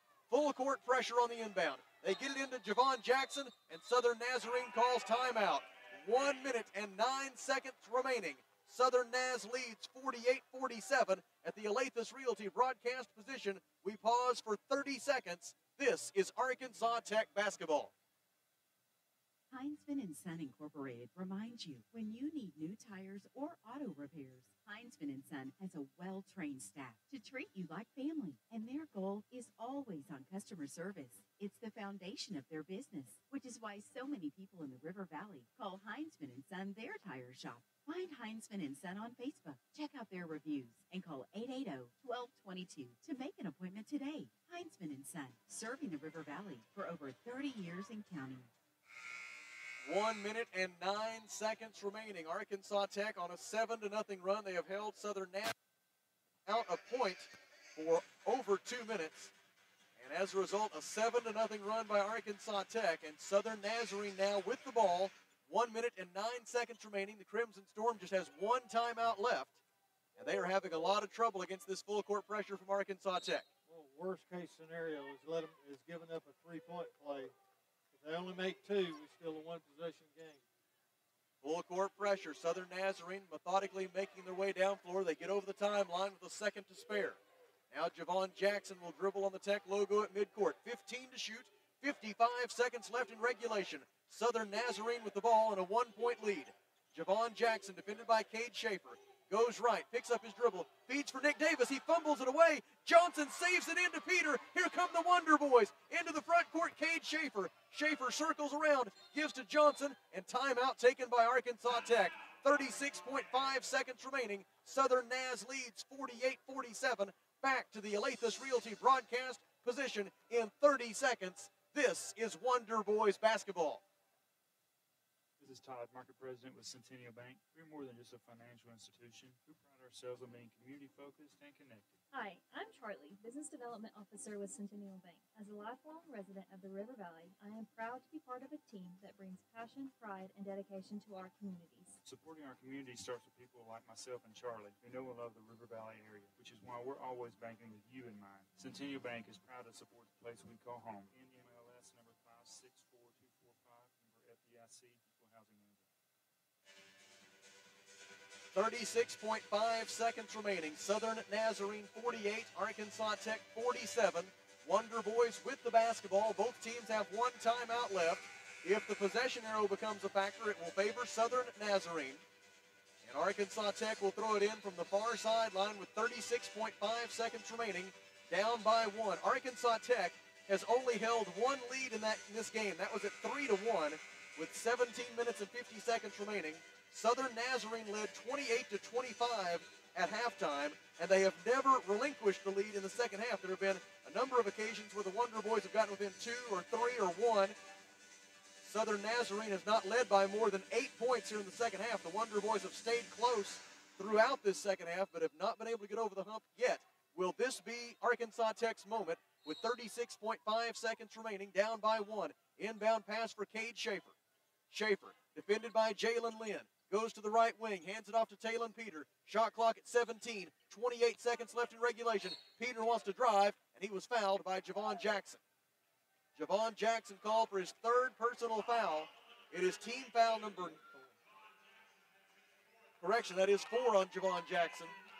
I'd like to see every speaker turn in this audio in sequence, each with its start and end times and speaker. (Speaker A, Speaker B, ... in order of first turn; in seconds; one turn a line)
Speaker A: 0.3-17.9
Speaker B: 19.5-48.5
Speaker A: 49.8-55.5
Speaker A: 56.5-59.3
Speaker A: 60.0-69.6
Speaker A: 70.2-73.5
Speaker C: 73.7-77.3
Speaker C: 77.9-80.4
Speaker A: 81.4-87.2
Speaker A: 87.7-123.8
Speaker D: 125.4-132.0
Speaker E: 132.1-142.0
Speaker D: 142.0-155.9
Speaker A: 158.5-172.2
Speaker A: 173.0-197.6
Speaker A: 198.6-214.2
Speaker A: 214.7-225.4
Speaker A: 226.3-230.8
Speaker C: 230.8-231.1
Speaker A: 233.0-234.9